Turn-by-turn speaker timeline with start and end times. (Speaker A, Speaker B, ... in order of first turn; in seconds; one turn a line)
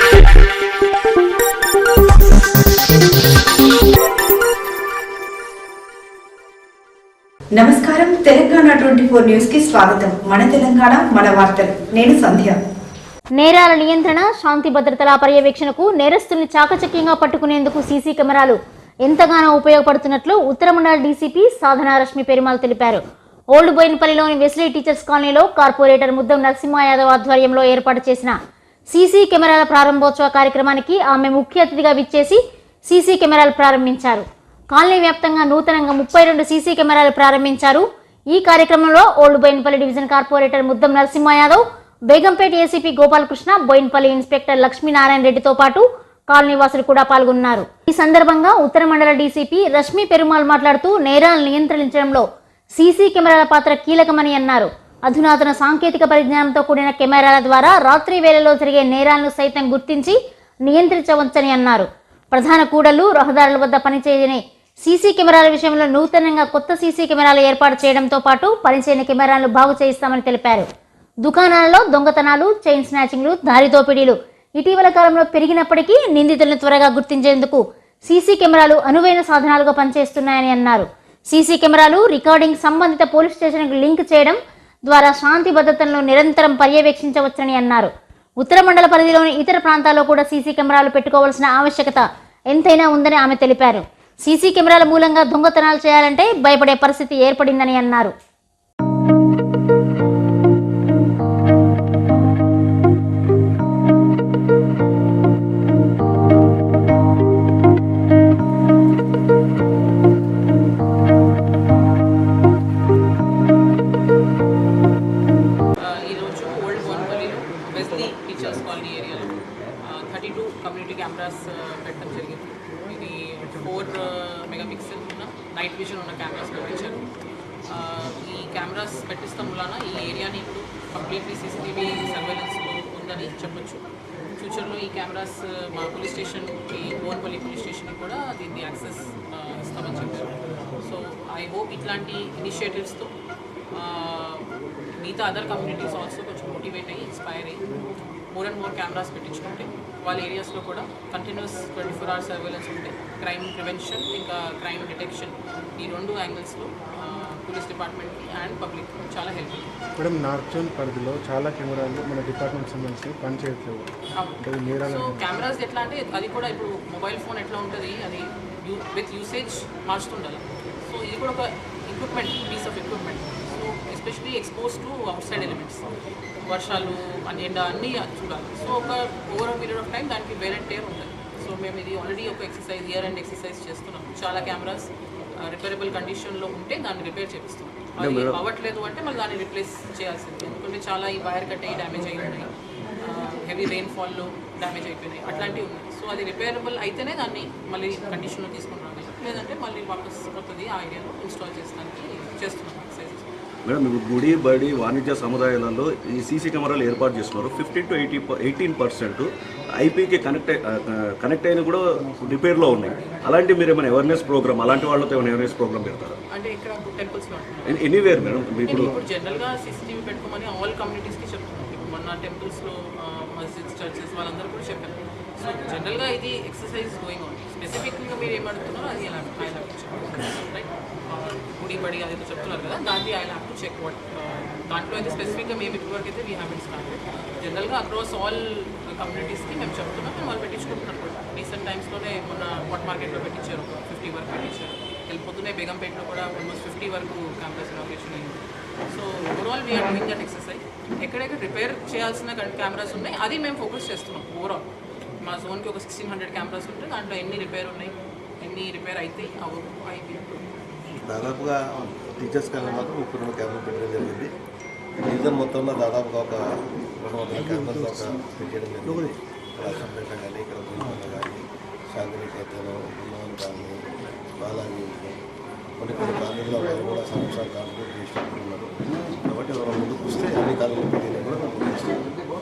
Speaker A: 7.5-12.6
Speaker B: 13.4-23.0
Speaker B: 23.5-28.4
Speaker B: 28.9-52.2
Speaker B: 52.8-70.7
Speaker B: 71.2-98.1
Speaker C: 115.8-127.0
Speaker C: 127.7-133.8
Speaker C: 134.4-143.1
Speaker C: 143.8-144.4
Speaker C: 145.0-147.6
Speaker C: 148.3-159.7
Speaker D: 160.0-163.9
Speaker C: 164.2-175.9
Speaker D: 164.4-165.2
Speaker C: 176.5-184.9
Speaker C: 185.4-203.3
Speaker E: 188.0-188.4
Speaker E: 203.6-216.2
Speaker C: 216.3-217.9
Speaker E: 217.7-218.9
Speaker C: 218.6-254.6
Speaker C: 255.2-260.4
Speaker F: 261.1-264.3
Speaker F: 265.0-273.8
Speaker E: 267.5-267.9
Speaker E: 268.9-269.1
Speaker F: 274.4-275.2
Speaker F: 275.8-282.1